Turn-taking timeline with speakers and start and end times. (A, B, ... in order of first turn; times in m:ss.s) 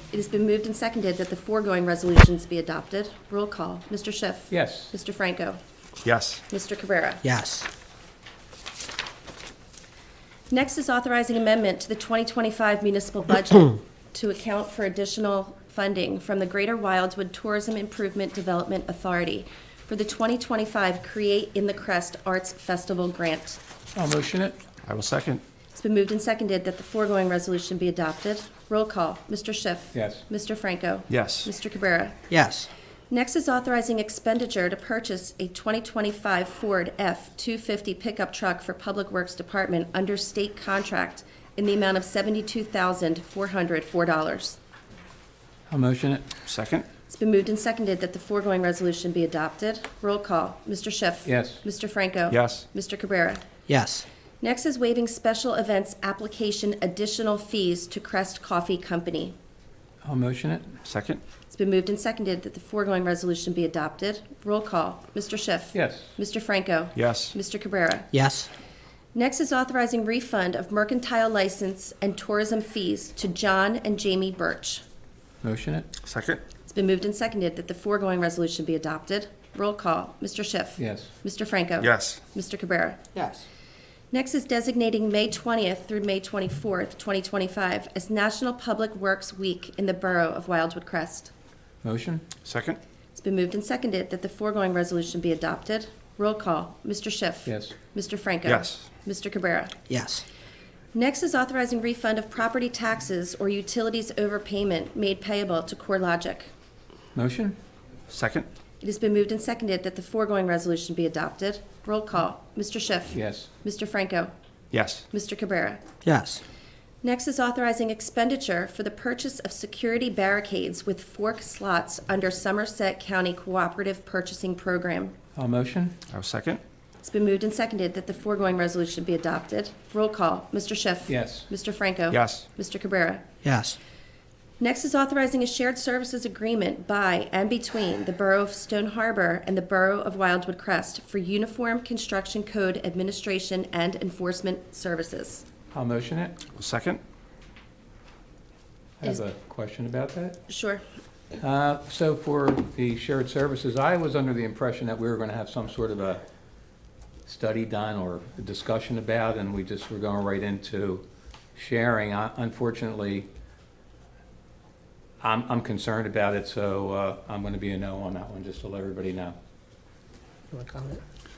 0:00.1-0:05.6 A
0:04.5-0:04.9 B
0:06.0-0:06.4 C
0:06.5-0:07.2 A
0:07.2-0:07.7 D
0:10.5-0:23.6 A
0:23.9-0:24.6 B
0:24.8-0:25.4 C
0:25.7-0:32.2 A
0:29.9-0:30.2 B
0:31.1-0:31.5 C
0:32.3-0:32.7 D
0:33.1-0:44.6 A
0:45.7-0:46.3 B
0:46.4-0:46.8 C
0:47.1-0:53.4 A
0:51.2-0:51.6 B
0:52.3-0:52.6 C
0:53.7-0:54.0 D
0:54.4-0:59.3 A
1:00.0-1:00.7 B
1:00.8-1:01.2 C
1:01.5-1:08.1 A
1:05.7-1:06.1 B
1:06.9-1:07.3 C
1:08.1-1:08.5 D
1:09.1-1:14.8 A
1:15.4-1:15.9 B
1:16.0-1:16.4 C
1:16.7-1:23.0 A
1:20.8-1:21.1 B
1:21.8-1:22.2 C
1:23.1-1:23.4 D
1:24.1-1:31.3 A
1:31.8-1:32.2 B
1:32.4-1:32.8 C
1:33.1-1:39.7 A
1:37.4-1:37.7 B
1:38.4-1:38.8 C
1:39.9-1:40.2 D
1:40.9-1:46.5 A
1:47.1-1:47.6 B
1:48.1-1:48.5 C
1:48.8-1:54.3 A
1:53.1-1:53.5 B
1:54.7-1:55.0 C
1:55.1-1:55.8 A
1:56.0-1:56.4 D
1:57.0-2:05.1 A
2:05.3-2:06.0 B
2:06.1-2:06.6 C
2:07.0-2:13.2 A
2:11.1-2:11.5 B
2:12.1-2:12.4 C
2:13.4-2:13.8 D
2:14.6-2:25.4 A
2:25.7-2:26.4 B
2:26.5-2:27.0 C
2:29.0-2:30.4 B
2:30.5-2:30.8 A
2:31.4-2:36.2 B
2:37.2-2:41.0 B
2:41.5-2:43.3 B
2:45.2-2:49.4 B